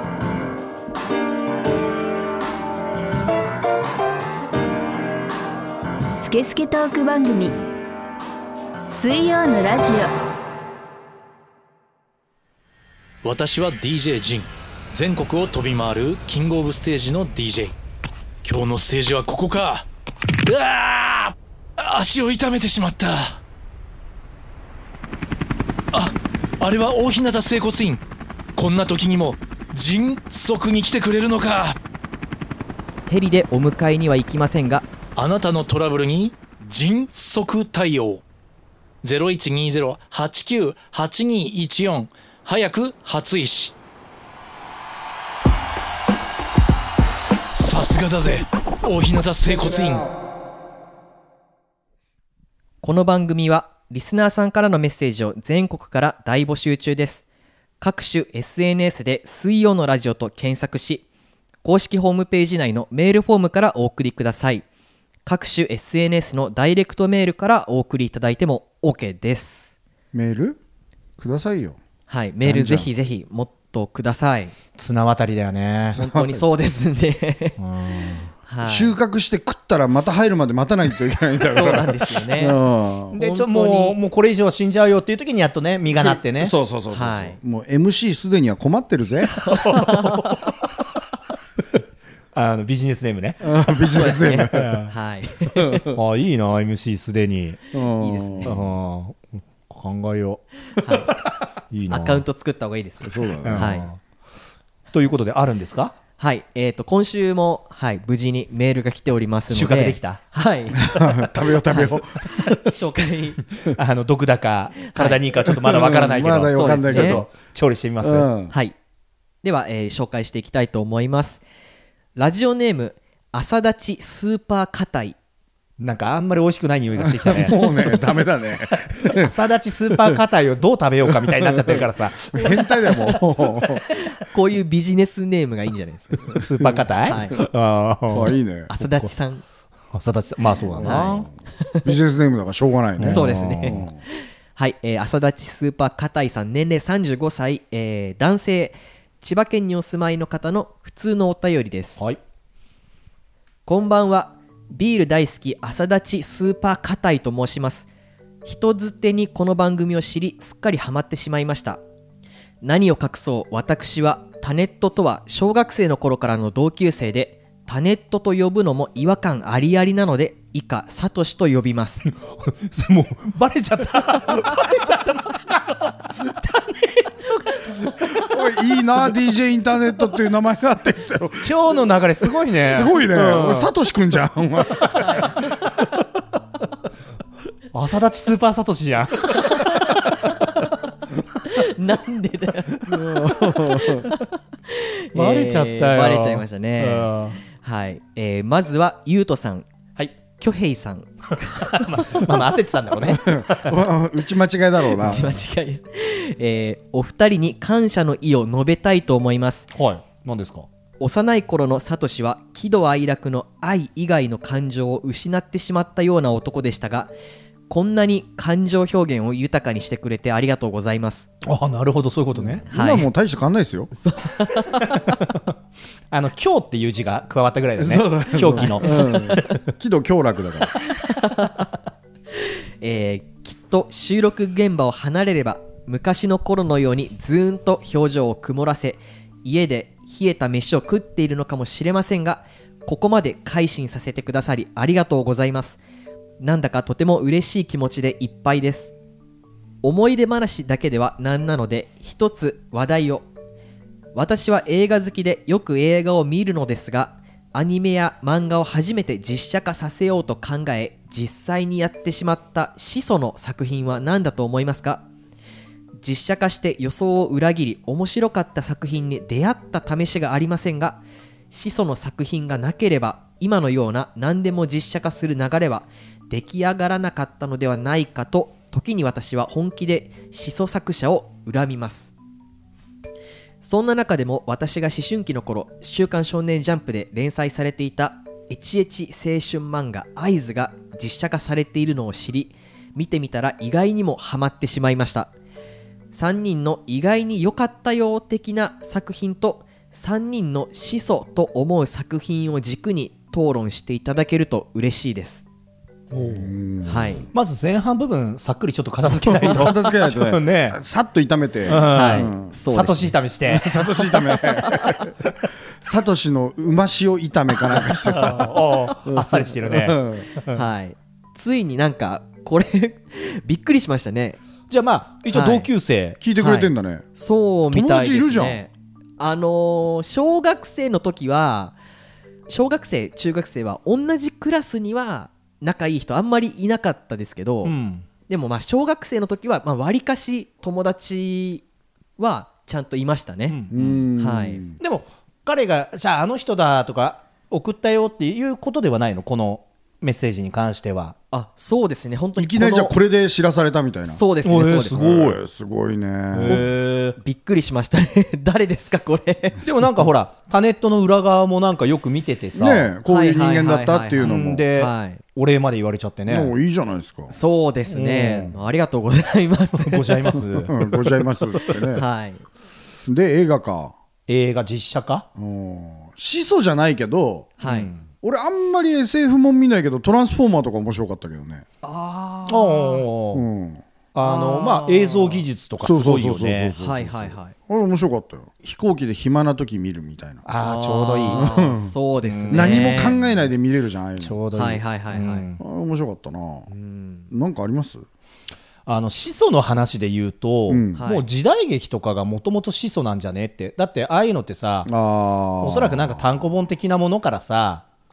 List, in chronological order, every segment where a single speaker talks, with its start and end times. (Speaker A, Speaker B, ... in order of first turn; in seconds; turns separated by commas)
Speaker A: 6.2-7.5, Speaker A: 8.9-10.1, Speaker B: 13.2-17.7, Speaker B: 18.4-19.9, Speaker B: 20.4-23.4, Speaker B: 25.9-28.0, Speaker B: 28.6-31.8, Speaker C: 33.1-34.9, Speaker B: 35.1-38.2, Speaker B: 39.0-43.7, Speaker B: 47.5-50.1, Speaker C: 52.8-57.2, Speaker C: 57.8-61.0, Speaker C: 61.6-64.6, Speaker C: 65.2-69.7, Speaker D: 70.1-70.6, Speaker D: 71.2-71.8, Speaker C: 72.1-74.5, Speaker D: 72.4-72.9, Speaker E: 74.8-76.0, Speaker D: 75.9-76.4, Speaker C: 75.9-77.6, Speaker E: 77.6-78.3, Speaker C: 78.5-79.0, Speaker D: 78.6-83.2, Speaker C: 81.4-82.6, Speaker E: 83.1-86.5, Speaker C: 83.1-84.0, Speaker D: 85.9-89.5, Speaker C: 86.9-87.4, Speaker C: 89.4-90.5, Speaker E: 89.4-90.5, Speaker E: 92.3-93.5, Speaker D: 93.4-94.8, Speaker C: 93.9-95.8, Speaker E: 94.5-94.9, Speaker D: 95.6-96.0, Speaker E: 95.9-97.6, Speaker D: 97.7-98.5, Speaker C: 98.0-98.6, Speaker E: 98.4-100.4, Speaker C: 100.8-101.1, Speaker E: 101.7-102.2, Speaker C: 101.9-103.9, Speaker D: 103.0-103.8, Speaker E: 103.4-104.0, Speaker E: 104.9-105.9, Speaker C: 106.2-111.0, Speaker E: 109.5-110.2, Speaker D: 110.8-112.6, Speaker C: 111.7-113.4, Speaker E: 113.6-118.3, Speaker C: 114.9-115.2, Speaker D: 115.5-117.3, Speaker C: 116.5-117.2, Speaker D: 118.0-118.5, Speaker C: 119.4-121.4, Speaker C: 122.2-125.2, Speaker E: 125.8-128.2, Speaker D: 127.0-129.3, Speaker E: 129.1-133.0, Speaker D: 129.9-130.2, Speaker D: 131.1-133.9, Speaker C: 133.9-136.4, Speaker E: 136.3-139.1, Speaker C: 137.1-137.4, Speaker D: 138.1-138.7, Speaker C: 138.7-139.4, Speaker E: 139.9-141.3, Speaker D: 140.8-141.3, Speaker C: 140.8-141.9, Speaker D: 141.8-144.0, Speaker E: 143.0-143.9, Speaker C: 143.0-152.0, Speaker C: 153.7-157.9, Speaker C: 158.4-161.8, Speaker C: 162.6-172.1, Speaker E: 172.2-178.2, Speaker D: 178.1-181.9, Speaker E: 181.4-183.7, Speaker D: 182.6-185.3, Speaker E: 187.7-190.0, Speaker C: 191.5-199.7, Speaker D: 192.9-194.1, Speaker E: 195.1-197.4, Speaker C: 200.3-202.4, Speaker E: 201.6-203.8, Speaker D: 203.0-205.4, Speaker C: 204.9-209.7, Speaker E: 209.7-210.7, Speaker C: 211.0-217.1, Speaker C: 217.7-221.3, Speaker E: 221.4-222.7, Speaker D: 222.4-223.9, Speaker C: 222.7-223.1, Speaker C: 223.9-225.0, Speaker E: 224.8-225.5, Speaker E: 226.1-229.6, Speaker D: 227.8-230.7, Speaker C: 228.6-229.4, Speaker C: 231.0-231.7, Speaker C: 232.4-245.8, Speaker C: 246.4-248.9, Speaker C: 249.8-253.2, Speaker C: 254.1-265.0, Speaker C: 266.0-282.1, Speaker C: 283.6-295.3, Speaker C: 296.1-305.4, Speaker E: 306.1-306.5, Speaker D: 306.1-307.2, Speaker C: 306.9-307.3, Speaker E: 307.3-310.8, Speaker D: 309.1-312.5, Speaker E: 311.6-314.9, Speaker C: 311.9-313.1, Speaker D: 313.5-315.1, Speaker C: 314.6-314.9, Speaker D: 315.8-320.3, Speaker E: 317.7-320.6, Speaker C: 320.5-324.4, Speaker E: 324.7-326.2, Speaker C: 325.3-325.7, Speaker D: 326.2-327.1, Speaker C: 326.4-331.8, Speaker D: 327.7-328.6, Speaker C: 332.5-337.7, Speaker E: 337.6-338.1, Speaker C: 338.3-341.6, Speaker C: 342.2-343.6, Speaker E: 343.5-344.0, Speaker D: 343.7-344.8, Speaker C: 344.2-344.6, Speaker E: 344.8-351.1, Speaker C: 351.3-352.9, Speaker D: 352.4-354.2, Speaker C: 354.1-355.1, Speaker E: 354.4-355.4, Speaker D: 354.8-356.7, Speaker E: 356.3-357.2, Speaker C: 356.5-359.6, Speaker E: 359.6-362.9, Speaker D: 362.5-364.6, Speaker C: 363.1-365.2, Speaker E: 364.2-366.5, Speaker D: 366.3-367.4, Speaker C: 367.3-370.4, Speaker E: 367.9-368.5, Speaker E: 369.7-371.9, Speaker D: 370.6-372.1, Speaker C: 371.9-372.4, Speaker D: 373.1-373.9, Speaker E: 374.3-375.2, Speaker D: 375.4-377.6, Speaker C: 377.6-377.9, Speaker E: 377.6-378.0, Speaker D: 378.2-381.6, Speaker C: 381.8-383.1, Speaker E: 382.5-383.4, Speaker D: 383.3-383.8, Speaker E: 384.1-386.7, Speaker C: 384.2-385.4, Speaker D: 385.8-390.4, Speaker C: 386.8-387.5, Speaker E: 390.4-391.6, Speaker C: 390.6-393.1, Speaker D: 391.3-391.9, Speaker E: 392.2-393.5, Speaker D: 392.5-394.4, Speaker E: 394.2-395.6, Speaker C: 394.5-395.5, Speaker D: 395.6-396.7, Speaker C: 396.7-397.3, Speaker D: 397.3-398.0, Speaker E: 398.9-404.9, Speaker D: 400.7-401.0, Speaker C: 400.9-401.2, Speaker D: 404.9-406.2, Speaker E: 405.6-407.8